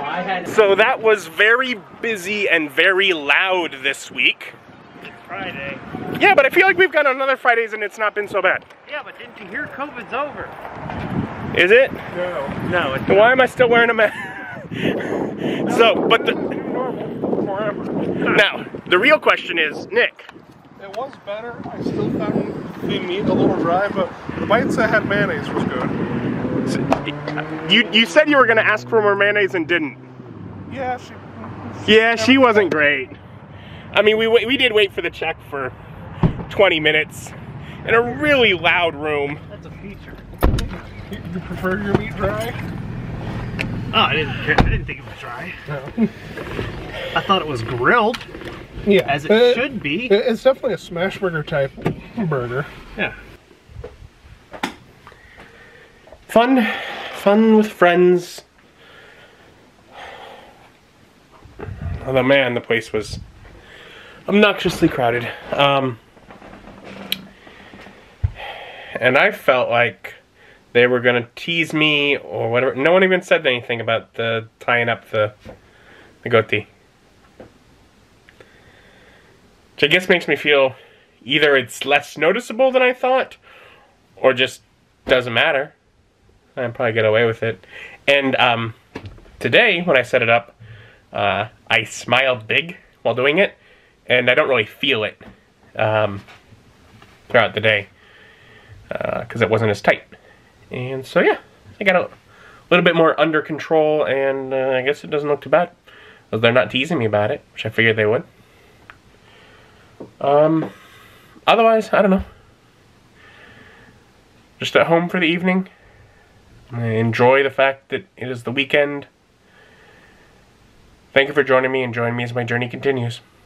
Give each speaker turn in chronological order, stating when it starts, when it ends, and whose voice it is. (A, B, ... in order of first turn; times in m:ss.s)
0:00.4-0:04.6 A
0:05.0-0:05.8 B
0:06.1-0:08.6 A
0:08.9-0:10.6 B
0:11.5-0:12.0 A
0:12.1-0:12.6 C
0:12.6-0:13.3 B
0:13.0-0:16.5 A
0:15.6-0:18.0 C
0:18.2-0:20.3 A
0:20.8-0:25.9 C
0:27.6-0:30.0 A
0:30.7-0:32.7 C
0:31.8-0:33.2 A
0:33.9-0:35.7 A
0:36.5-0:39.4 A
0:39.5-0:40.2 B
0:41.0-0:42.6 C
0:43.9-0:45.5 B
0:45.7-0:46.1 C
0:47.1-0:48.2 B
0:48.8-0:52.7 C
0:49.0-0:50.2 B
0:56.3-0:58.4 A
1:02.0-1:03.2 A
1:04.3-1:06.0 A
1:08.9-1:10.2 A
1:10.7-1:15.3 A
1:16.2-1:16.7 A
1:19.8-1:23.4 A
1:24.2-1:25.7 A
1:26.5-1:28.8 A
1:29.4-1:30.6 A
1:31.1-1:33.6 A
1:34.1-1:35.2 A
1:35.8-1:36.2 A
1:37.3-1:37.9 A
1:38.9-1:40.1 A
1:40.7-1:42.1 A
1:42.7-1:45.7 A
1:46.3-1:48.2 A
1:50.2-1:50.7 A
1:51.5-1:52.2 A
1:54.6-1:55.7 A
1:56.7-1:59.1 A
2:01.1-2:03.2 A